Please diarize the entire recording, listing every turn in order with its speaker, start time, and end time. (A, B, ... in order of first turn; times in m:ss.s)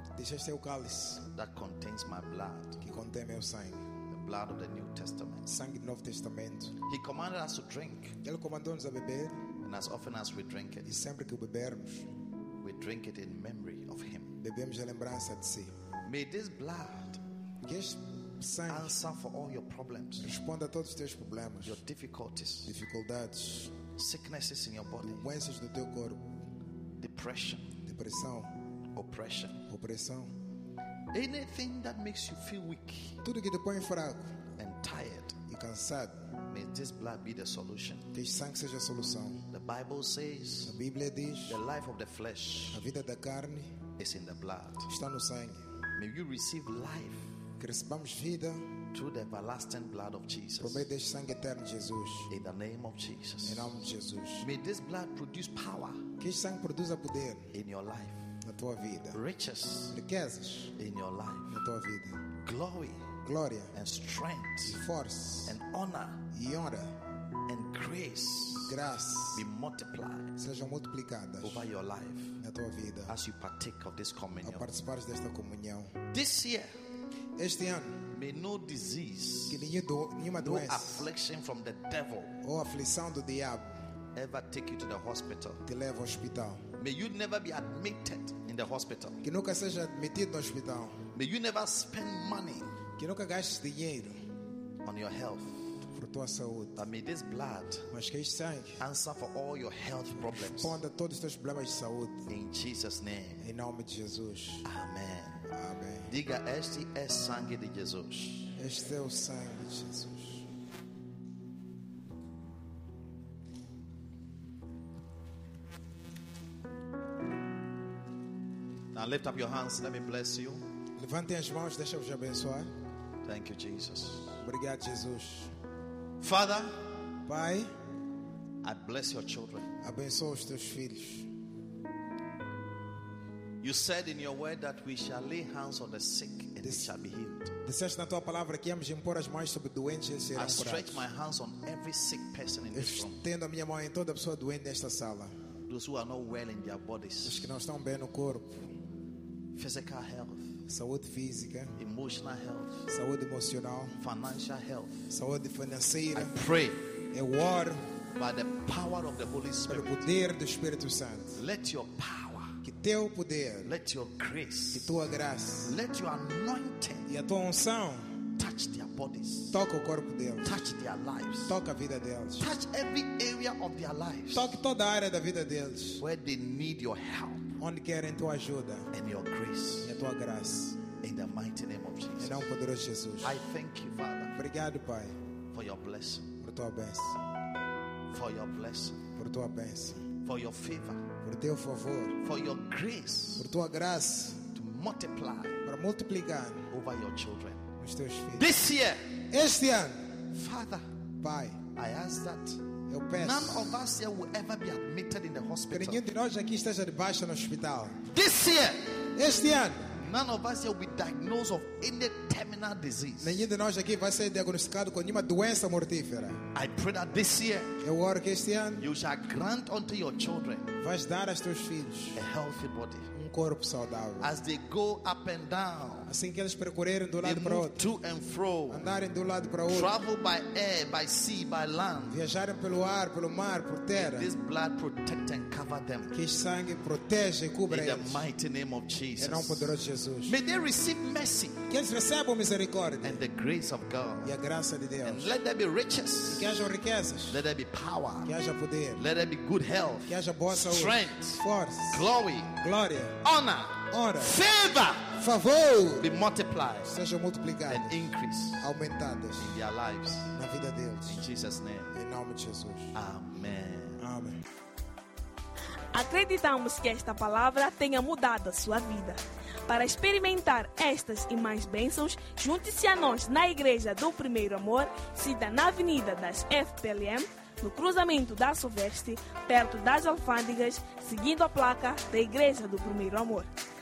0:00.1-0:01.2 A
0:01.3-0:02.8 B
0:02.8-0:03.8 A
0:04.1-0:05.5 B
0:05.5-0:06.8 A
0:06.8-0:08.2 B
0:08.2-0:09.4 A
0:09.6-0:10.9 B
0:10.8-0:12.1 A
0:12.6-0:14.4 B
0:14.4-0:15.7 A
0:16.0-0:17.2 B
0:17.6-0:18.9 A
0:18.7-0:20.3 B
0:20.2-0:21.8 A
0:21.6-0:22.7 B
0:22.6-0:23.7 A
0:24.0-0:25.2 B
0:25.0-0:26.2 A
0:27.0-0:27.8 B
0:27.8-0:28.5 A
0:28.9-0:29.6 B
0:29.7-0:30.4 A
0:31.1-0:33.2 B
0:33.2-0:34.4 A
0:34.6-0:35.4 B
0:35.5-0:36.2 A
0:36.4-0:38.1 B
0:38.1-0:39.4 A
0:39.5-0:40.7 B
0:40.6-0:41.6 A
0:41.4-0:42.8 B
0:42.7-0:43.7 A
0:44.0-0:44.9 B
0:44.9-0:45.6 A
0:46.0-0:47.3 B
0:47.6-0:48.7 A
0:48.9-0:50.8 B
0:50.6-0:52.3 A
0:52.3-0:53.7 B
0:53.4-0:54.5 A
0:54.4-0:56.1 B
0:56.2-0:57.5 A
0:57.5-0:58.2 B
0:58.4-0:59.2 A
0:59.1-1:00.0 B
0:59.9-1:00.7 A
1:00.7-1:01.6 B
1:01.5-1:02.2 A
1:02.4-1:03.1 B
1:03.2-1:03.7 A
1:03.7-1:04.8 B
1:04.6-1:05.6 A
1:05.4-1:06.3 B
1:06.3-1:07.0 A
1:07.5-1:08.8 B
1:08.6-1:09.4 A
1:09.3-1:10.4 B
1:10.4-1:11.7 A
1:11.4-1:12.4 B
1:12.4-1:13.1 A
1:13.1-1:14.7 B
1:14.4-1:15.9 A
1:16.1-1:16.7 B
1:17.4-1:18.1 A
1:18.1-1:19.7 B
1:19.5-1:21.1 A
1:20.3-1:22.4 B
1:22.4-1:23.8 A
1:24.1-1:25.6 B
1:25.6-1:26.6 A
1:26.8-1:29.2 B
1:29.2-1:31.0 A
1:31.1-1:32.7 B
1:33.0-1:34.2 A
1:34.8-1:35.7 B
1:35.9-1:36.8 A
1:36.8-1:37.9 B
1:37.9-1:38.8 A
1:38.8-1:40.8 B
1:40.1-1:42.3 A
1:42.3-1:43.4 B
1:43.4-1:44.6 A
1:44.6-1:45.5 B
1:45.5-1:46.1 A
1:46.1-1:48.5 B
1:48.6-1:50.4 A
1:58.9-2:00.6 B
2:01.0-2:02.7 A
2:03.2-2:04.4 B
2:04.4-2:05.5 A
2:06.2-2:06.9 B
2:07.2-2:07.7 A
2:08.6-2:09.7 B
2:09.8-2:11.3 A
2:13.6-2:17.6 B
2:16.6-2:16.9 A
2:17.6-2:21.0 A
2:20.3-2:23.2 B
2:22.7-2:25.3 A
2:25.7-2:27.5 B
2:27.2-2:28.7 A
2:29.5-2:30.6 B
2:30.7-2:31.7 A
2:31.8-2:32.9 B
2:32.9-2:34.0 A
2:34.0-2:35.1 B
2:35.1-2:36.4 A
2:36.1-2:36.9 B
2:37.1-2:37.8 A
2:38.1-2:40.1 B
2:39.7-2:41.4 A
2:41.4-2:42.6 B
2:42.6-2:43.7 A
2:43.6-2:45.0 B
2:44.7-2:45.7 A
2:45.6-2:47.1 B
2:47.1-2:48.2 A
2:48.4-2:49.6 B
2:49.5-2:50.7 A
2:50.4-2:51.6 B
2:51.5-2:52.5 A
2:52.4-2:54.6 B
2:54.3-2:56.0 A
2:56.0-2:57.6 B
2:57.6-2:58.9 A
2:58.9-2:59.9 B
2:59.8-3:00.9 A
3:01.0-3:02.5 B
3:02.2-3:03.4 A
3:03.2-3:04.4 B
3:04.3-3:05.2 A
3:05.5-3:06.3 B
3:06.4-3:07.2 A
3:08.1-3:09.1 B
3:09.2-3:10.1 A
3:10.2-3:11.1 B
3:11.2-3:12.2 A
3:12.2-3:13.5 B
3:13.4-3:14.5 A
3:14.5-3:15.6 B
3:15.6-3:16.7 A
3:16.7-3:17.7 B
3:17.8-3:18.5 A
3:18.3-3:19.2 B
3:19.3-3:20.2 A
3:20.3-3:20.9 B
3:21.2-3:21.6 A
3:21.7-3:26.0 B
3:22.9-3:23.8 A
3:25.7-3:28.1 A
3:28.1-3:28.9 B
3:29.1-3:30.0 A
3:30.0-3:33.4 B
3:33.2-3:36.4 A
3:36.5-3:37.8 B
3:37.8-3:38.9 A
3:38.8-3:40.7 B
3:40.8-3:42.2 A
3:42.1-3:43.1 B
3:43.1-3:44.3 A
3:44.2-3:46.1 B
3:46.0-3:47.9 A
3:47.2-3:48.9 B
3:48.7-3:50.0 A
3:49.7-3:52.2 B
3:52.1-3:54.3 A
3:53.9-3:56.1 B
3:56.1-3:58.2 A
3:57.7-3:59.7 B
3:59.2-4:00.4 A
4:00.2-4:01.6 B
4:01.7-4:03.2 A
4:03.0-4:04.4 B
4:04.2-4:05.4 A
4:05.0-4:06.5 B
4:06.3-4:07.4 A
4:07.3-4:08.3 B
4:08.2-4:09.0 A
4:08.9-4:12.6 B
4:10.1-4:13.2 A
4:13.2-4:15.2 B
4:13.9-4:14.4 A
4:15.1-4:16.1 A
4:16.0-4:16.9 B
4:16.8-4:18.0 A
4:17.7-4:18.7 B
4:18.6-4:19.6 A
4:19.4-4:20.3 B
4:20.3-4:21.2 A
4:21.1-4:22.0 B
4:21.9-4:22.9 A
4:22.9-4:24.0 B
4:24.0-4:24.4 A
4:25.9-4:43.5 C